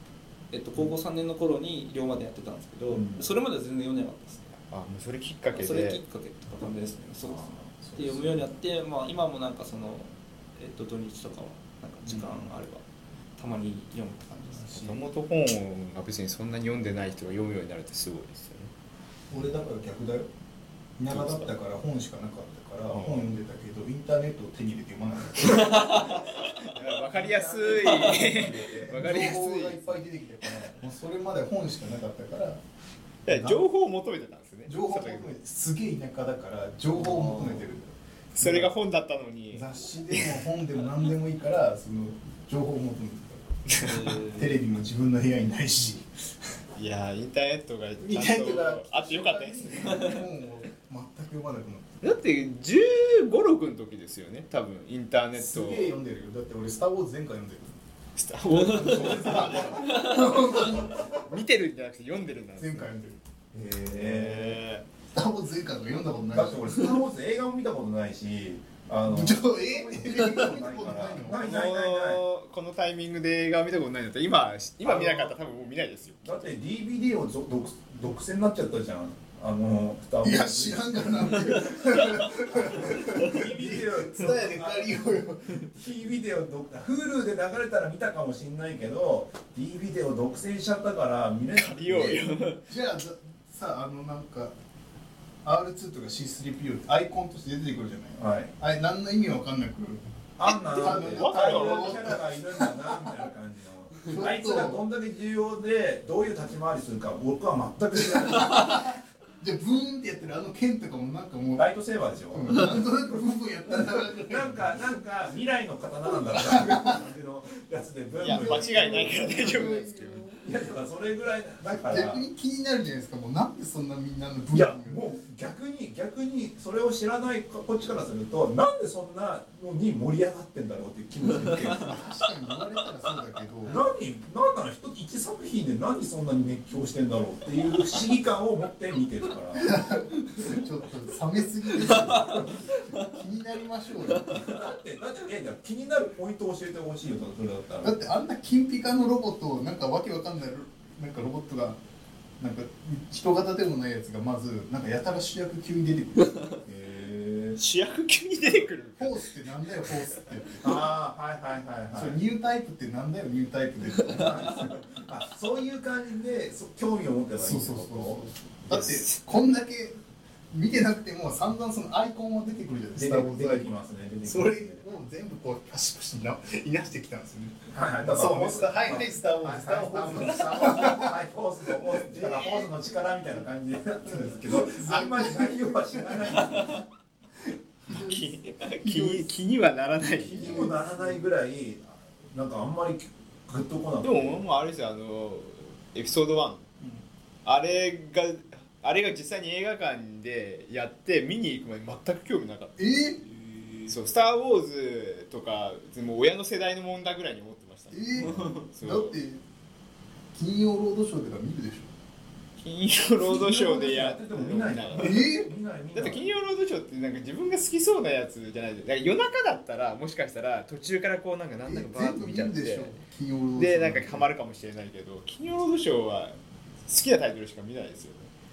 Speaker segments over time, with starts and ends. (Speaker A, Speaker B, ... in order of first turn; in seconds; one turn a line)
Speaker A: 0.5-4.5
Speaker B: 2.9-3.3
Speaker C: 4.7-6.0
Speaker A: 5.5-12.8
Speaker B: 7.2-8.5
Speaker A: 13.4-15.0
Speaker C: 14.7-18.7
Speaker D: 19.3-20.3
Speaker D: 21.0-26.1
Speaker C: 21.1-21.5
Speaker C: 22.9-23.3
Speaker A: 25.6-26.1
Speaker C: 25.8-30.1
Speaker B: 26.0-29.0
Speaker D: 28.5-32.6
Speaker C: 33.2-35.4
Speaker D: 33.3-33.6
Speaker D: 34.7-38.7
Speaker A: 37.0-37.6
Speaker C: 38.4-40.5
Speaker D: 39.5-46.3
Speaker A: 43.8-44.6
Speaker C: 46.8-50.2
Speaker D: 48.0-52.1
Speaker C: 52.0-56.0
Speaker D: 55.4-57.8
Speaker C: 58.2-62.9
Speaker B: 58.6-60.1
Speaker D: 58.6-61.3
Speaker A: 58.7-59.3
Speaker D: 62.6-63.2
Speaker B: 63.5-64.6
Speaker C: 63.9-64.9
Speaker D: 65.1-67.0
Speaker B: 66.3-72.2
Speaker D: 69.1-71.5
Speaker C: 71.3-76.3
Speaker B: 74.8-75.3
Speaker B: 76.2-92.3
Speaker D: 80.2-85.7
Speaker C: 91.6-92.7
Speaker D: 92.7-94.5
Speaker D: 95.4-100.0
Speaker B: 98.2-98.5
Speaker B: 100.4-108.9
Speaker C: 100.4-102.3
Speaker D: 100.6-103.3
Speaker D: 104.0-104.8
Speaker D: 108.0-111.7
Speaker B: 111.6-112.8
Speaker D: 112.3-114.9
Speaker B: 114.1-119.7
Speaker D: 116.1-117.0
Speaker C: 118.2-120.3
Speaker D: 118.2-120.5
Speaker B: 120.4-122.2
Speaker D: 121.8-125.0
Speaker B: 124.5-132.0
Speaker D: 131.7-133.8
Speaker B: 133.7-139.8
Speaker D: 139.6-144.6
Speaker B: 144.3-148.0
Speaker D: 147.8-151.8
Speaker D: 152.4-156.6
Speaker B: 156.6-157.6
Speaker C: 157.6-160.2
Speaker D: 159.0-160.9
Speaker B: 160.6-162.2
Speaker D: 161.9-164.7
Speaker B: 164.1-168.2
Speaker D: 167.4-170.0
Speaker C: 168.7-169.2
Speaker D: 170.5-173.7
Speaker B: 173.0-174.8
Speaker D: 174.2-181.2
Speaker B: 177.7-186.9
Speaker D: 181.7-182.6
Speaker D: 184.1-186.8
Speaker D: 187.9-189.3
Speaker C: 187.9-190.7
Speaker B: 190.2-194.4
Speaker D: 190.3-191.2
Speaker C: 194.0-196.7
Speaker C: 197.4-202.8
Speaker D: 202.8-203.2
Speaker C: 203.9-209.2
Speaker D: 207.9-209.4
Speaker D: 210.3-211.9
Speaker C: 212.6-215.3
Speaker B: 213.2-216.3
Speaker D: 215.0-215.5
Speaker C: 215.9-223.0
Speaker D: 221.7-224.3
Speaker C: 223.6-228.3